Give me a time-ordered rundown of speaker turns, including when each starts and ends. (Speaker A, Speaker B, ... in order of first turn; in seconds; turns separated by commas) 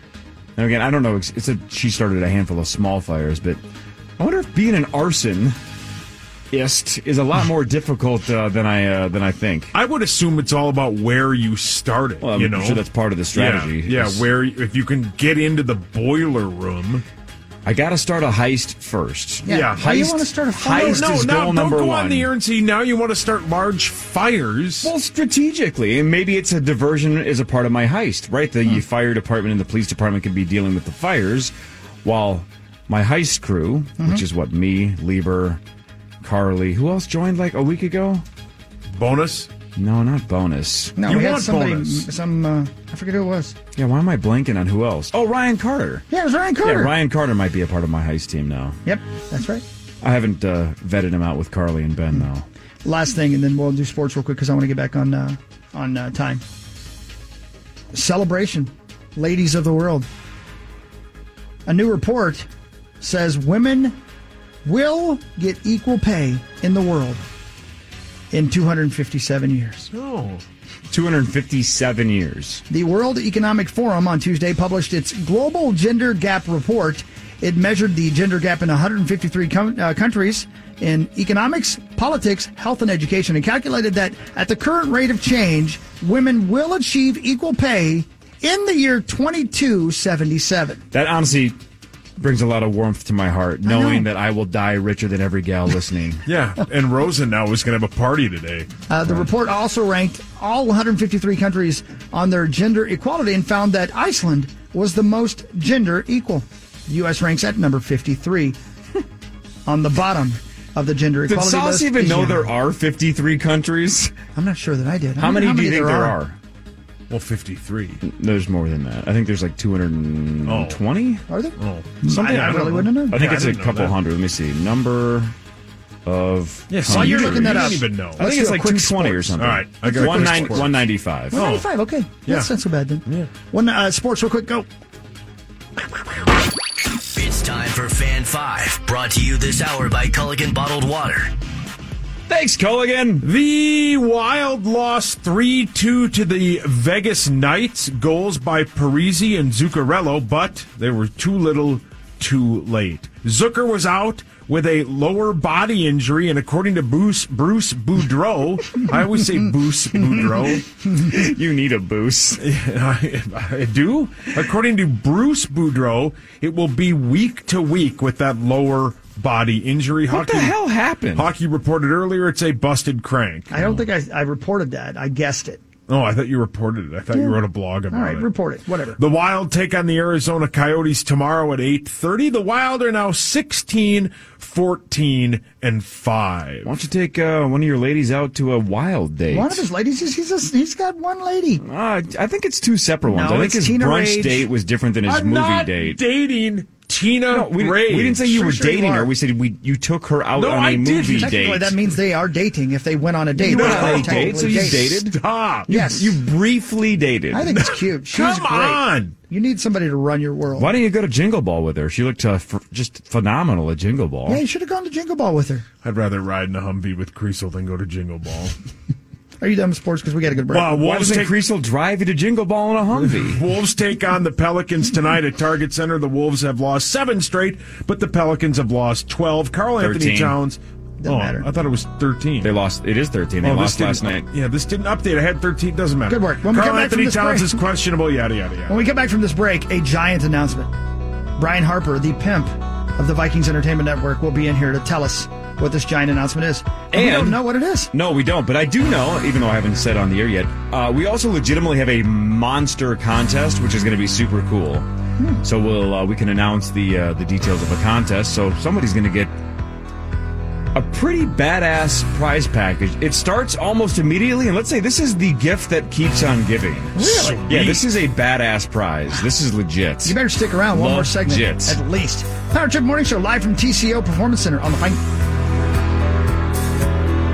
Speaker A: 0.6-3.6, Speaker A: 4.2-5.6, Speaker A: 6.5-9.7, Speaker B: 9.7-12.8, Speaker A: 12.2-14.2, Speaker B: 13.3-17.0, Speaker A: 17.6-22.3, Speaker C: 19.4-21.2, Speaker B: 19.5-19.9, Speaker B: 20.6-24.9, Speaker A: 24.8-31.5, Speaker A: 32.0-35.6, Speaker A: 36.2-38.2, Speaker B: 38.9-39.5, Speaker A: 39.8-41.0, Speaker C: 41.0-43.5, Speaker B: 41.0-42.1, Speaker A: 43.8-46.0, Speaker C: 46.1-46.9, Speaker A: 46.6-48.8, Speaker C: 48.9-49.6, Speaker A: 50.0-52.4, Speaker C: 52.8-56.4, Speaker C: 57.9-60.0, Speaker C: 61.6-62.5, Speaker C: 63.0-64.0, Speaker C: 64.6-67.2, Speaker C: 68.3-69.9, Speaker B: 69.9-70.4, Speaker A: 70.9-72.6, Speaker C: 72.7-90.8, Speaker A: 90.9-91.6, Speaker A: 92.2-96.2, Speaker C: 93.6-94.1, Speaker B: 96.2-98.7, Speaker C: 98.9-108.6, Speaker C: 109.7-112.5, Speaker A: 111.3-114.1, Speaker C: 114.3-116.2, Speaker A: 115.2-116.3, Speaker B: 117.1-118.0, Speaker A: 118.0-121.2, Speaker B: 120.5-120.8, Speaker C: 121.3-123.2, Speaker B: 121.6-124.0, Speaker A: 122.1-122.5, Speaker A: 123.1-125.3, Speaker A: 126.0-131.4, Speaker B: 126.7-128.2, Speaker C: 126.8-129.3, Speaker B: 129.4-131.6, Speaker C: 129.9-130.6, Speaker C: 131.3-134.7, Speaker D: 137.1-141.3, Speaker A: 142.3-143.3, Speaker B: 143.2-160.6, Speaker C: 160.0-160.3, Speaker A: 161.0-162.4, Speaker B: 162.4-170.5, Speaker A: 170.1-171.3, Speaker B: 171.1-173.7, Speaker C: 173.5-175.6, Speaker B: 175.9-178.3, Speaker C: 177.9-179.0, Speaker B: 179.0-186.7, Speaker A: 186.6-189.6, Speaker C: 189.3-191.6, Speaker A: 191.6-196.0, Speaker C: 193.1-194.5, Speaker B: 195.1-198.3, Speaker A: 197.3-201.7, Speaker C: 198.2-199.1, Speaker B: 200.3-201.5, Speaker C: 201.1-204.9, Speaker B: 203.4-205.7, Speaker A: 203.4-207.5, Speaker C: 205.7-206.2, Speaker C: 207.3-210.7, Speaker B: 207.6-209.1, Speaker A: 210.6-214.4, Speaker C: 214.3-215.6, Speaker B: 215.8-218.5, Speaker C: 219.4-220.8, Speaker B: 220.5-221.3, Speaker A: 220.7-223.4, Speaker B: 223.0-232.5, Speaker A: 229.8-230.3, Speaker C: 231.0-231.5, Speaker A: 232.4-234.2, Speaker B: 233.4-238.8, Speaker C: 236.1-237.6, Speaker C: 238.7-240.7, Speaker C: 241.4-247.9, Speaker A: 246.9-247.4, Speaker A: 247.9-254.9, Speaker A: 255.4-259.3, Speaker A: 260.7-270.1, Speaker C: 266.9-267.7, Speaker B: 267.1-267.8, Speaker C: 270.0-275.0, Speaker A: 270.7-271.8